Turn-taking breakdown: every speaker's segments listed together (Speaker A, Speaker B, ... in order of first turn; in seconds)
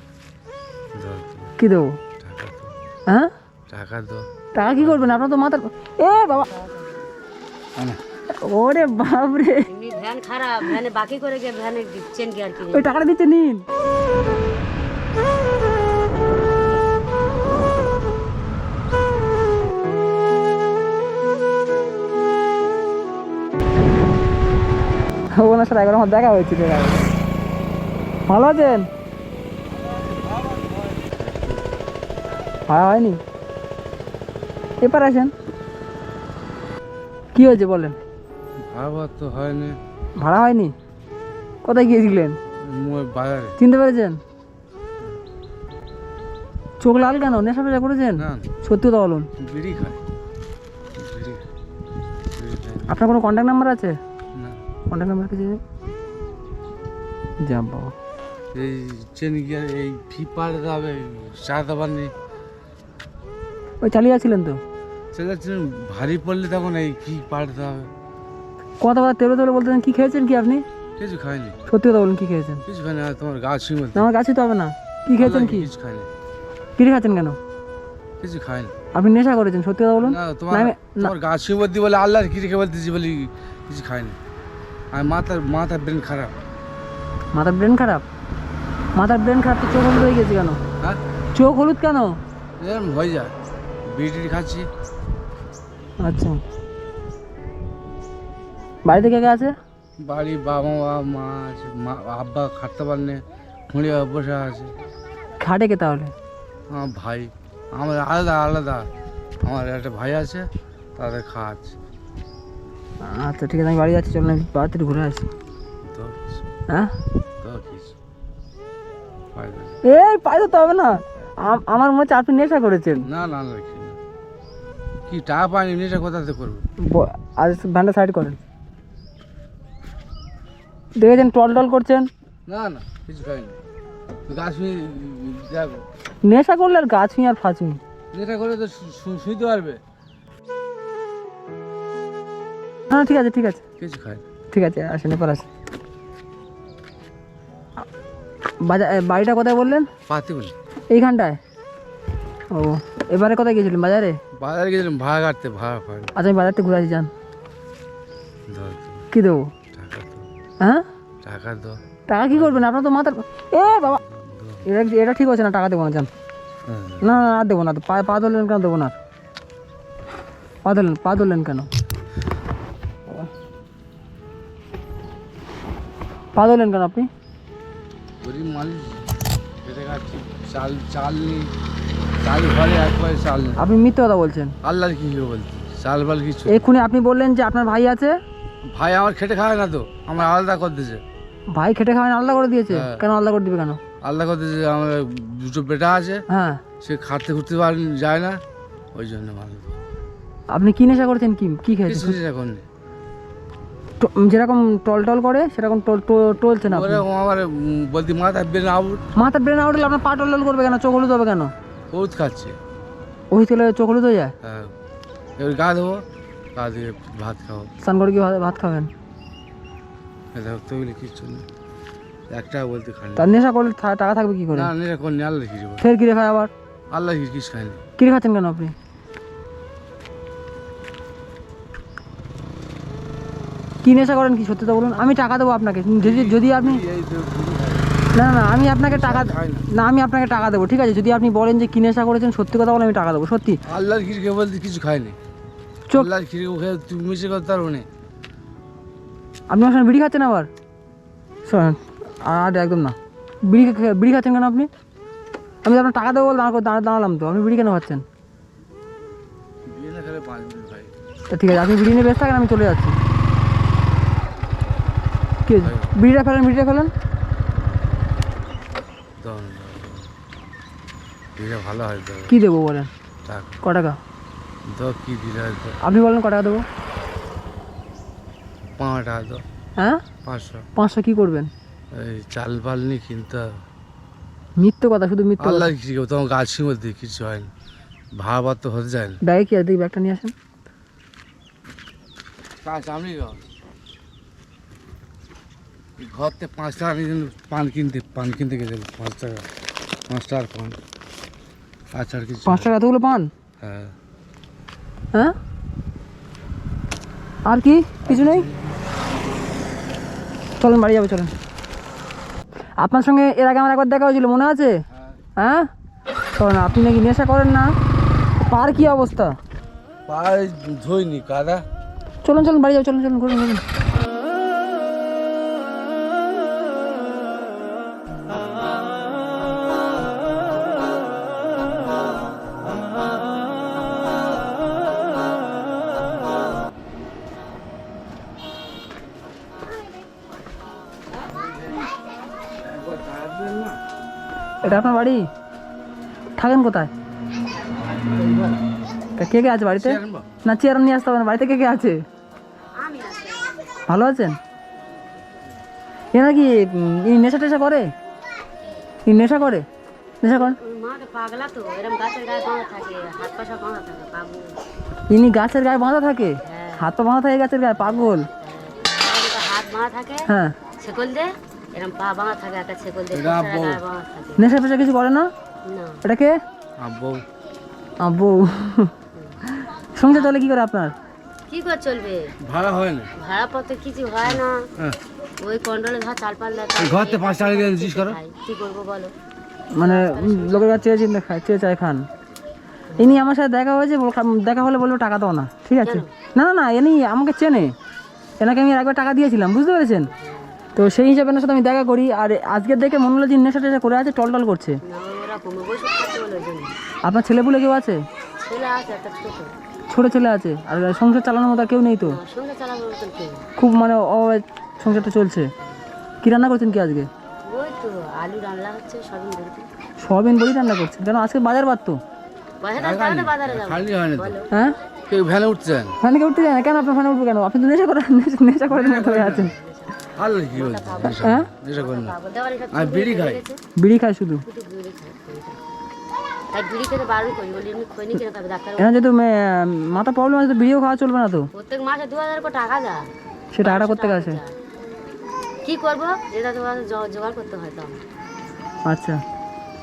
Speaker A: 0.9-1.5, 2.2-2.7, 3.7-4.3, 4.8-5.1, 30.0-31.2, 38.6-39.8, 42.6-43.6, 48.2-48.5, 49.4-50.0, 51.0-51.5, 52.3-53.0, 58.5-62.1, 65.1-67.9, 71.0-71.6, 72.7-74.1, 75.2-76.1, 78.2-78.7, 80.0-84.2, 84.9-86.4, 92.6-93.3, 93.8-94.7, 100.0-104.7, 106.7-108.9, 109.4-111.8, 115.8-116.4, 117.4-118.0, 119.3-119.8, 123.0-124.0, 125.1-126.6, 132.5-133.6, 134.3-135.8, 138.1-139.8, 143.8-144.2, 150.1-150.5, 154.4-156.1, 158.5-159.1, 159.7-160.3, 161.2-161.8, 162.3-162.7, 163.9-164.7, 166.7-167.2, 178.2-179.0, 179.6-181.5, 182.2-183.7, 184.6-186.7, 188.7-191.0, 192.7-193.0, 194.0-196.2, 196.8-198.4, 198.9-199.8, 201.9-202.6, 206.7-209.0, 211.9-212.6, 214.4-214.7, 215.4-216.0, 216.6-217.7, 220.3-221.4, 222.3-223.4, 224.5-225.8, 226.9-227.8, 236.0-237.9, 238.8-239.7, 243.7-245.2, 245.9-247.9, 259.7-260.9, 265.6-266.0, 269.2-270.1, 271.4-272.3, 273.2-273.6, 274.7-275.8, 278.8-279.4, 280.2-280.7, 281.9-283.5, 285.4-287.5, 288.2-289.2, 292.6-293.4, 296.0-299.5, 300.1-300.8, 301.9-302.7, 303.6-303.9, 308.0-308.8, 314.9-315.2, 320.1-321.6, 342.6-343.8, 349.7-350.3, 373.1-373.8, 376.8-377.2, 382.4-383.1, 386.8-388.2, 422.8-424.4, 425.1-426.0, 428.7-429.5, 430.2-432.1, 432.7-433.4
Speaker B: 1.6-2.0, 4.5-6.5, 8.4-9.7, 12.7-13.6, 25.3-27.1, 28.3-28.9, 32.7-33.2, 34.8-35.3, 37.3-38.0, 40.2-40.7, 41.6-42.4, 43.6-44.2, 46.8-49.3, 52.9-54.0, 54.9-55.6, 57.4-57.9, 63.8-64.6, 68.8-70.6, 71.7-72.6, 74.0-75.7, 76.8-77.4, 78.9-81.1, 87.3-88.0, 89.0-90.6, 91.3-92.2, 96.0-96.4, 98.8-99.5, 105.4-106.1, 113.0-115.3, 119.9-123.1, 126.8-128.4, 131.0-132.1, 136.2-137.8, 142.9-143.6, 144.5-145.5, 148.6-149.9, 150.9-151.4, 152.5-154.2, 156.2-157.1, 159.1-159.5, 162.1-164.0, 164.7-166.1, 167.0-169.0, 170.6-171.7, 176.4-177.1, 183.6-184.6, 186.5-188.1, 191.6-193.8, 196.3-196.6, 200.5-202.2, 204.0-207.1, 209.2-211.5, 213.3-214.3, 217.8-218.9, 223.2-224.7, 225.8-226.5, 228.0-228.7, 233.8-236.8, 238.2-243.6, 249.5-250.5, 251.5-254.7, 255.6-258.0, 261.3-263.0, 265.5-266.9, 272.3-272.9, 273.6-274.0, 275.8-276.6, 280.8-281.5, 284.6-285.7, 289.2-290.3, 302.5-303.3, 307.5-308.5, 310.6-311.3, 312.8-314.8, 315.4-315.7, 316.4-317.7, 318.5-319.4, 322.2-323.6, 344.6-345.2, 346.4-346.9, 349.2-352.0, 353.9-354.4, 356.1-357.9, 359.1-359.7, 360.2-360.6, 365.1-368.3, 370.3-370.6, 374.4-375.3, 376.0-376.4, 378.0-378.9, 379.5-380.9, 389.7-392.1, 393.0-397.7, 398.4-400.1, 400.8-404.8, 407.1-408.0, 409.9-412.2, 413.6-415.5, 416.2-417.1, 420.0-422.0, 424.5-424.8, 426.0-429.5, 431.2-431.5, 433.8-434.4, 438.8-441.5, 443.5-444.4, 448.9-449.2
Speaker C: 6.4-7.1, 9.7-12.9, 348.0-348.6, 352.8-353.8, 360.3-364.6, 366.4-366.9, 367.8-374.6, 375.7-376.0, 379.1-379.4, 380.1-380.5, 381.5-382.3, 383.2-384.7, 385.4-389.1, 389.8-390.9, 392.9-393.3, 395.8-396.1, 400.1-400.6, 404.8-406.8, 408.4-409.6, 412.0-413.5, 417.5-419.7, 422.6-424.5, 429.2-433.6, 434.4-435.6, 436.5-439.0, 441.5-444.6, 445.6-448.0